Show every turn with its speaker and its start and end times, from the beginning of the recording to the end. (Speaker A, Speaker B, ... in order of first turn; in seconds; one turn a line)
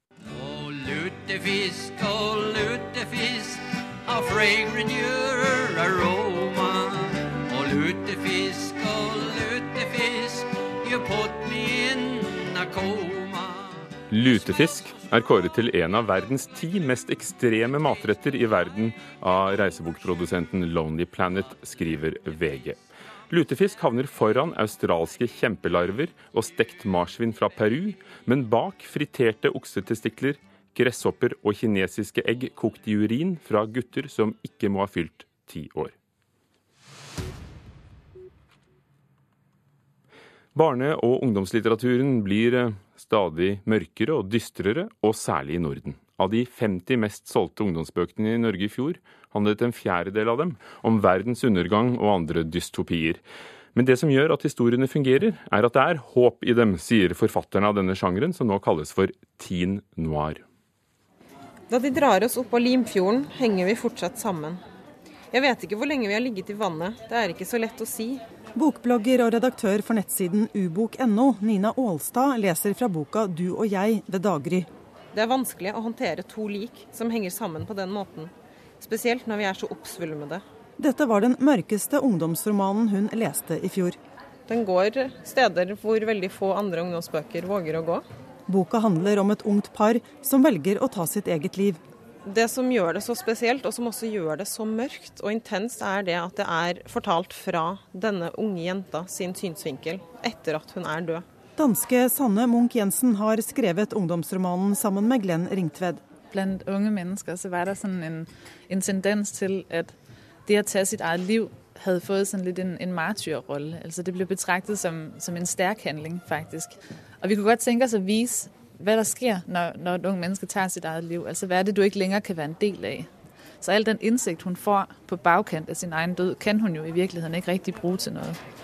Speaker A: 0.3-13.9
Speaker B: 14.1-22.8
Speaker B: 23.3-36.0
Speaker B: 40.5-53.2
Speaker B: 53.7-60.4
Speaker C: 61.7-64.6
Speaker C: 65.3-68.2
Speaker D: 68.6-74.7
Speaker C: 75.1-80.4
Speaker D: 80.8-84.0
Speaker C: 84.5-88.0
Speaker D: 88.5-91.8
Speaker C: 92.2-101.2
Speaker D: 101.6-106.0
Speaker E: 106.3-110.0
Speaker E: 110.5-128.4